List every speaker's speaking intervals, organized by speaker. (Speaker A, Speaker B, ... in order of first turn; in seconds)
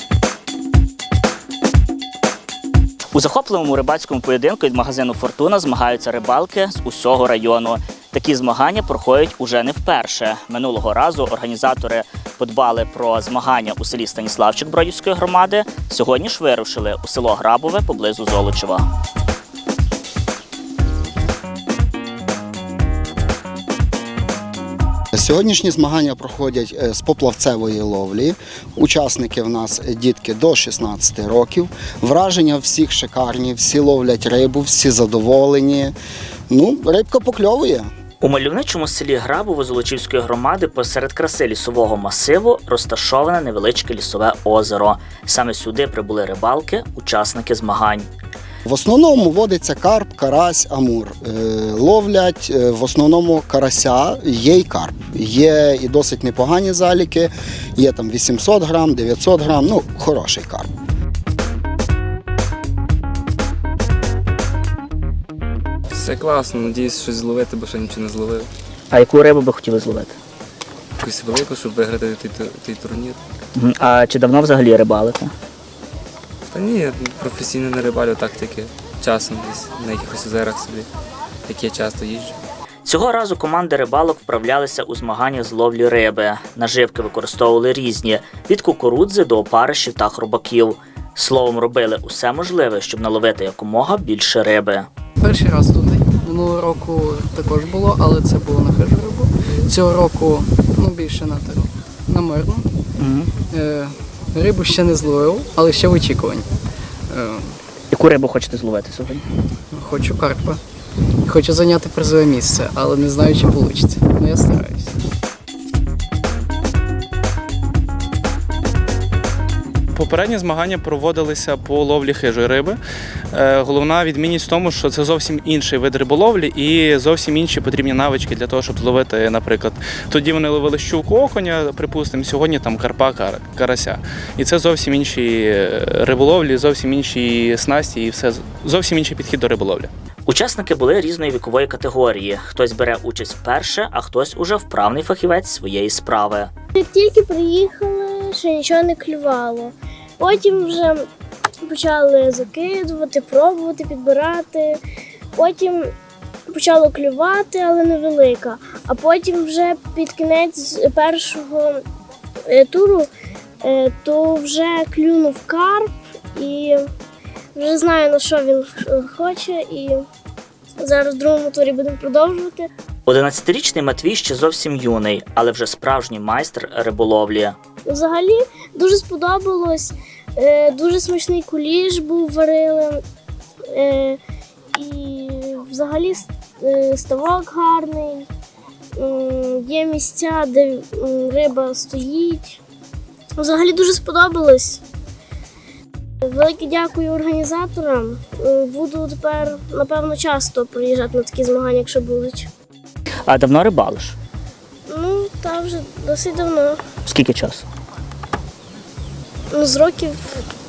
Speaker A: 3.1-18.8, 38.2-48.1, 68.9-70.1, 73.5-75.3, 82.8-94.9, 103.0-103.3, 107.9-109.2, 140.2-146.5, 173.0-177.6, 203.3-204.2, 207.1-207.6
Speaker B: 25.1-35.9, 36.5-37.9, 48.6-60.7
Speaker C: 65.9-68.5, 71.0-73.2, 76.5-80.9, 81.5-82.3
Speaker D: 95.2-102.7, 103.5-106.5, 107.1-107.5, 109.7-110.6, 111.2-114.9
Speaker E: 119.9-122.8, 123.3-139.9
Speaker F: 146.7-151.1, 151.6-154.8, 155.3-155.9, 156.5-161.8, 162.5-163.1, 163.6-166.8, 167.6-170.0, 170.8-172.7, 177.8-183.0, 183.7-184.2, 184.7-188.3, 189.0-192.6, 193.4-194.8, 196.2-202.5, 204.9-206.8, 209.5-210.3